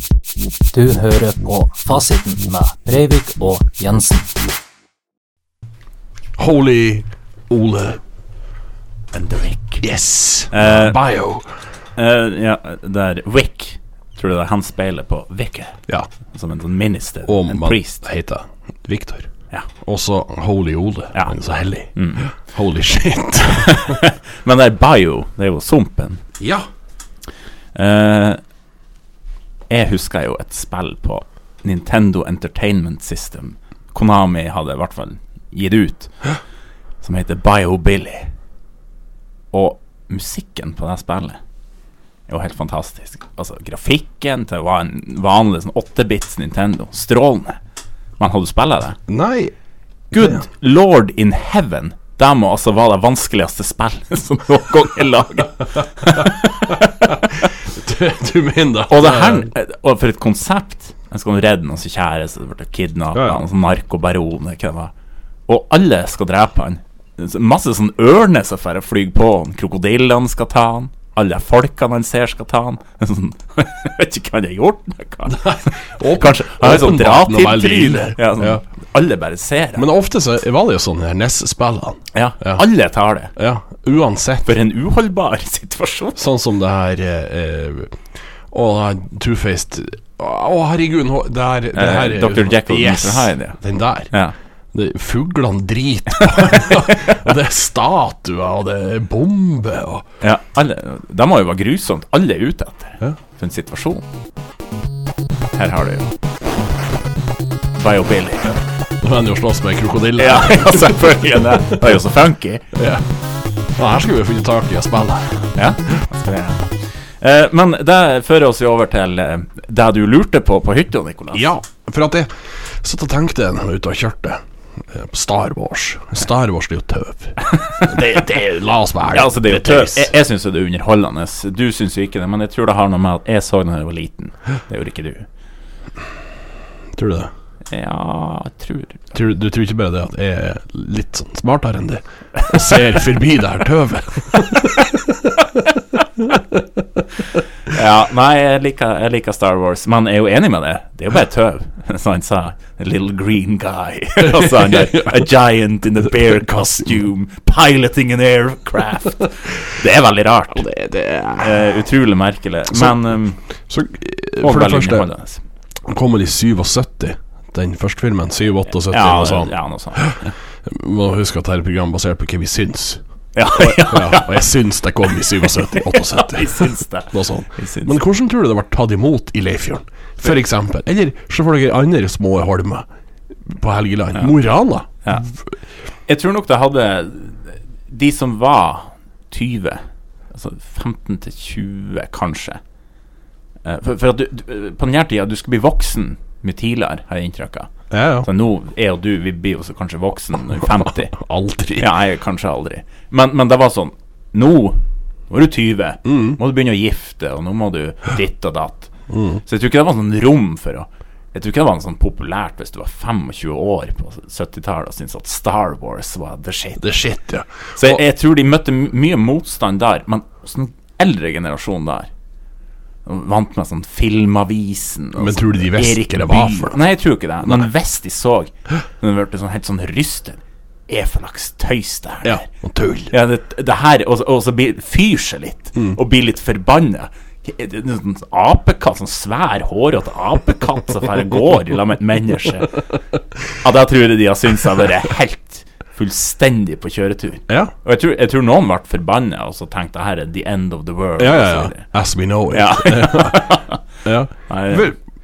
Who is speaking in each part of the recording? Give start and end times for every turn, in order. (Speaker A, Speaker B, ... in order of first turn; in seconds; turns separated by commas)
Speaker A: 0.7-4.3, Speaker B: 6.4-8.0, Speaker C: 9.1-9.8, Speaker B: 9.8-11.5, Speaker C: 10.5-11.0, Speaker C: 11.9-18.0, Speaker B: 17.2-19.3, Speaker B: 19.8-24.0, Speaker C: 21.9-22.3, Speaker C: 23.6-26.2, Speaker B: 26.4-26.6, Speaker C: 27.7-28.4, Speaker C: 29.7-36.1, Speaker C: 37.0-38.3, Speaker C: 39.5-41.4, Speaker C: 42.3-47.6, Speaker C: 48.2-49.0, Speaker B: 49.1-49.5, Speaker B: 50.1-50.4, Speaker C: 50.1-57.3, Speaker B: 57.0-59.5, Speaker C: 58.9-64.9, Speaker B: 63.1-63.4, Speaker C: 65.5-79.8, Speaker B: 75.2-78.6, Speaker B: 79.8-82.6, Speaker C: 82.1-83.3, Speaker B: 83.3-84.5, Speaker C: 84.4-86.2, Speaker B: 86.2-88.0, Speaker B: 88.5-94.1, Speaker C: 91.7-93.6, Speaker B: 94.7-100.0, Speaker C: 96.2-97.2, Speaker C: 100.2-104.0, Speaker C: 105.5-106.1, Speaker C: 107.8-108.6, Speaker B: 109.0-111.2, Speaker C: 110.2-112.7, Speaker B: 112.7-113.0, Speaker B: 113.8-115.5, Speaker C: 115.5-121.5, Speaker B: 121.3-130.1, Speaker C: 127.5-128.1, Speaker C: 129.1-135.3, Speaker B: 136.9-137.3, Speaker C: 137.7-139.0, Speaker B: 139.1-145.6, Speaker B: 146.2-147.0, Speaker C: 147.7-160.7, Speaker B: 154.2-155.3, Speaker B: 156.1-156.4, Speaker B: 160.5-161.8, Speaker C: 161.4-163.4, Speaker B: 162.7-163.0, Speaker B: 163.7-165.1, Speaker C: 164.4-165.4, Speaker B: 165.8-182.8, Speaker C: 168.9-170.3, Speaker C: 173.3-174.4, Speaker C: 175.4-177.9, Speaker B: 183.5-185.3, Speaker C: 186.1-192.6, Speaker C: 193.6-197.7, Speaker B: 197.9-198.3, Speaker C: 198.2-201.2, Speaker B: 200.8-201.9, Speaker C: 201.8-208.9, Speaker B: 206.0-206.4, Speaker B: 209.1-209.4, Speaker C: 209.4-216.8, Speaker B: 216.8-218.0, Speaker C: 217.8-222.1, Speaker C: 223.1-232.5, Speaker B: 225.2-226.8, Speaker B: 232.2-233.1, Speaker C: 233.1-242.8, Speaker C: 243.6-251.8, Speaker B: 247.5-247.7, Speaker B: 251.2-255.0, Speaker C: 252.5-253.8, Speaker C: 254.5-254.8